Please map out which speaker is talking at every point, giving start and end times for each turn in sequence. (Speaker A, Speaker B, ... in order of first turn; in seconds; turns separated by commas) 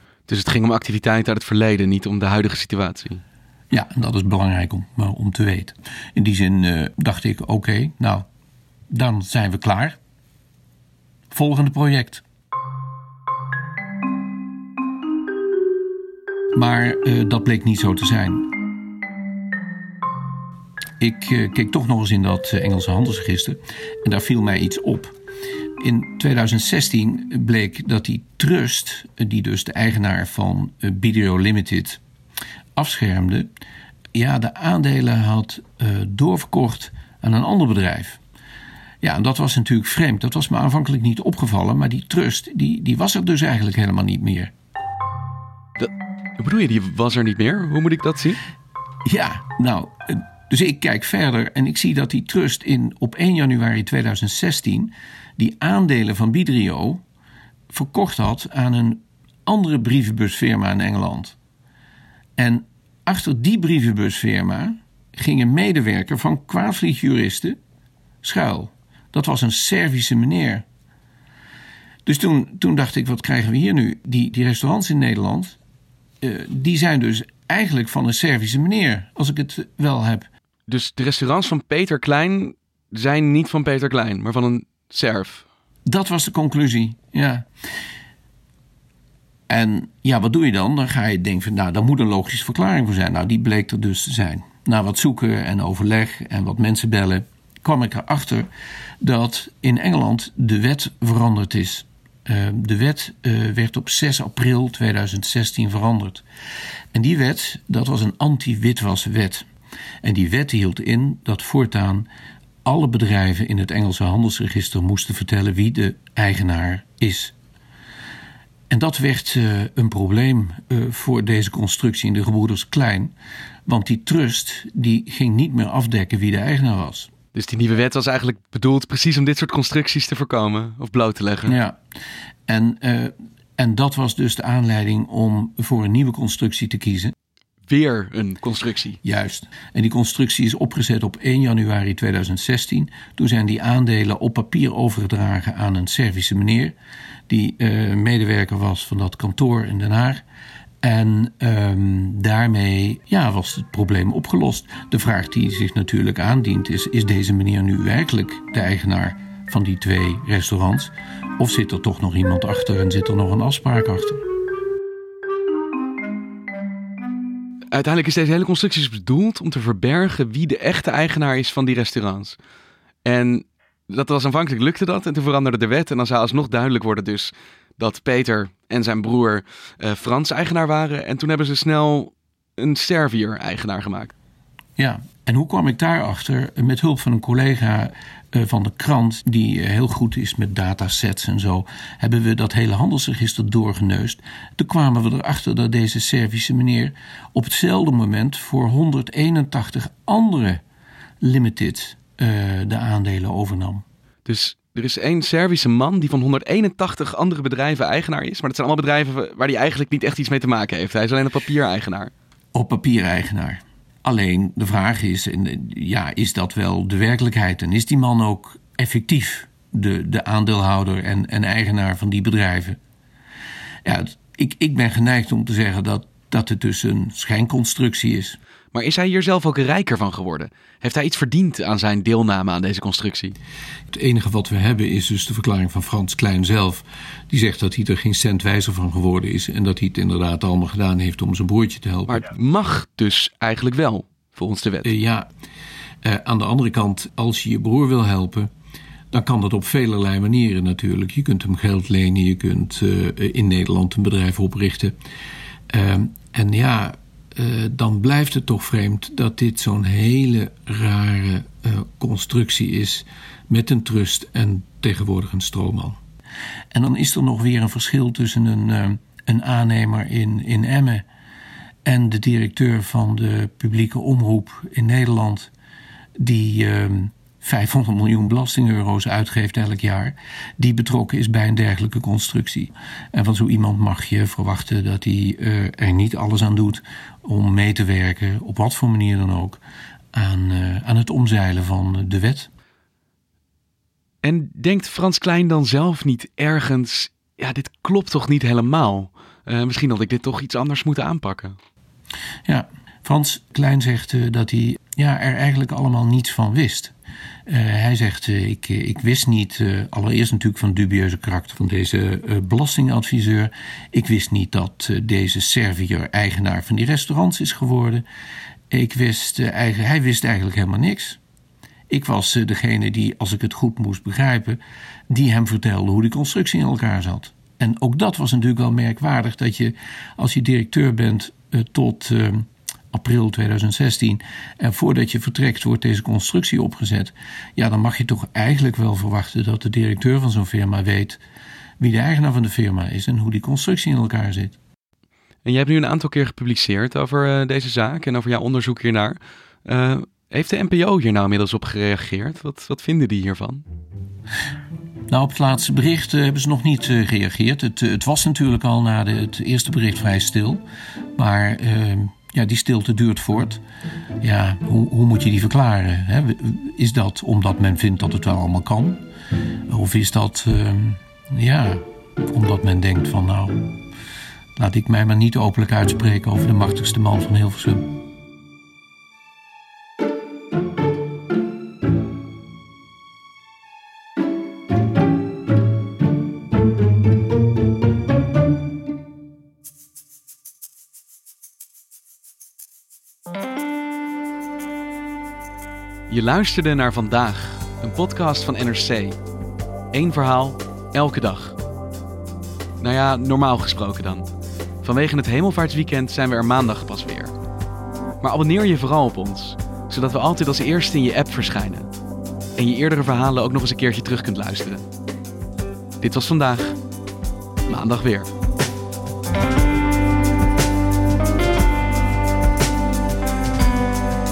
Speaker A: 0.3-3.2, Speaker B: 3.7-8.2, Speaker B: 8.9-10.0, Speaker B: 11.3-12.2, Speaker B: 16.5-18.4, Speaker B: 21.0-25.1, Speaker B: 25.8-32.0, Speaker B: 32.8-33.5, Speaker B: 34.1-38.2, Speaker B: 39.0-44.5, Speaker A: 45.8-48.4, Speaker B: 49.0-57.0, Speaker B: 57.7-61.4, Speaker B: 62.4-67.6, Speaker B: 68.2-70.6, Speaker B: 72.0-75.6, Speaker B: 76.2-80.2, Speaker A: 80.7-85.5, Speaker B: 85.9-87.5, Speaker B: 89.5-98.5, Speaker B: 99.0-106.2, Speaker B: 106.9-109.5, Speaker B: 110.0-112.1, Speaker B: 112.6-117.3, Speaker B: 118.7-123.1, Speaker B: 123.7-127.1, Speaker A: 127.3-131.6, Speaker B: 131.4-131.8, Speaker B: 132.5-137.1, Speaker A: 137.7-139.0, Speaker B: 139.0-146.7, Speaker B: 147.3-150.2, Speaker B: 150.8-164.2, Speaker A: 167.7-172.4, Speaker A: 173.0-184.1, Speaker B: 184.8-200.6, Speaker B: 201.2-203.8, Speaker A: 204.2-212.1, Speaker B: 212.5-222.8, Speaker B: 223.8-228.4, Speaker A: 228.7-233.3, Speaker B: 233.9-242.2, Speaker A: 242.1-244.9, Speaker B: 244.8-245.3, Speaker B: 246.0-248.5, Speaker B: 249.1-254.9, Speaker B: 255.7-266.0, Speaker B: 266.7-271.0, Speaker B: 271.9-275.5, Speaker B: 276.2-289.6, Speaker B: 290.1-292.5, Speaker A: 294.2-301.6, Speaker B: 302.4-306.9, Speaker B: 307.5-318.0, Speaker B: 318.7-321.2, Speaker B: 321.9-341.2, Speaker B: 341.8-344.6, Speaker A: 345.4-353.6, Speaker B: 355.1-360.6, Speaker B: 361.2-363.6, Speaker B: 364.2-369.0, Speaker B: 369.7-373.6, Speaker B: 374.6-377.9, Speaker A: 396.1-399.2, Speaker A: 399.9-401.6, Speaker A: 402.8-404.3, Speaker A: 404.8-407.3, Speaker A: 408.2-411.9, Speaker A: 412.6-414.8, Speaker A: 416.0-416.8, Speaker A: 417.6-418.3